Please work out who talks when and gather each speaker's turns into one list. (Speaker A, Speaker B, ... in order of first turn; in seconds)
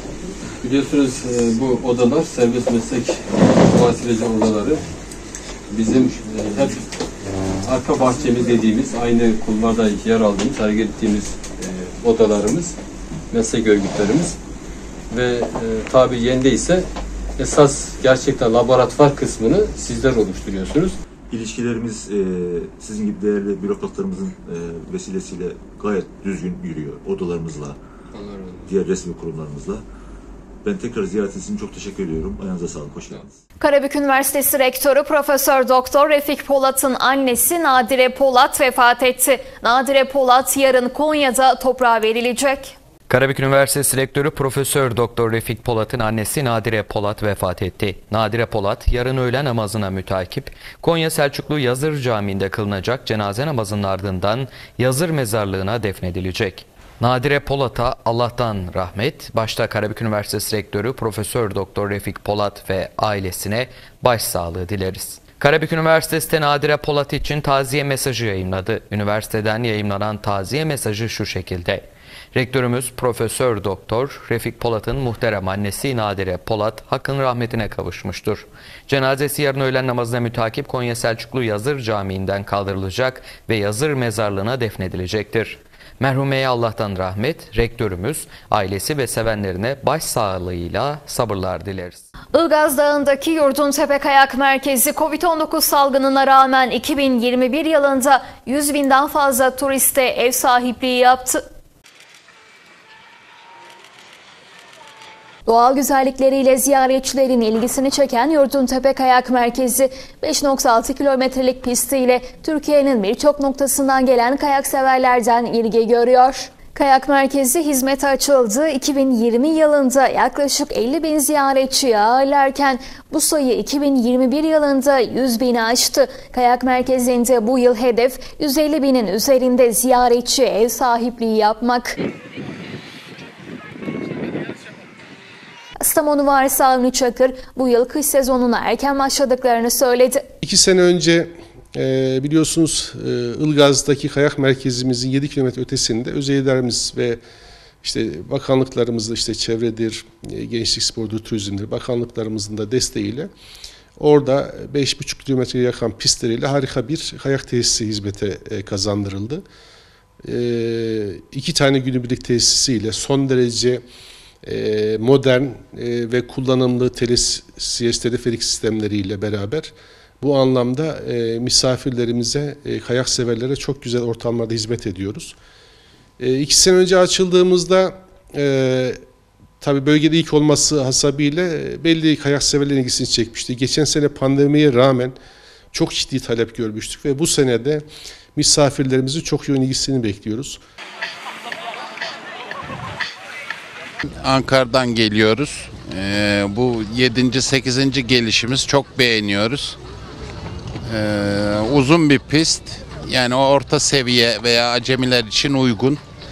Speaker A: 0.6-4.8, 5.7-6.8, 7.6-12.8, 13.3-14.4, 15.1-16.9, 17.4-21.0, 28.2-28.6
Speaker B: 21.3-27.8, 28.7-29.8, 30.6-33.3
Speaker C: 33.6-42.8, 92.3-101.4, 105.5-132.0, 135.8-140.2
Speaker D: 43.1-92.0
Speaker E: 140.4-147.2, 147.8-153.3, 154.0-159.4, 160.2-163.8, 164.4-175.3, 176.2-179.0, 179.6-185.2, 185.7-190.6
Speaker F: 194.3-199.7, 202.0-202.6, 203.1-204.4, 205.0-206.0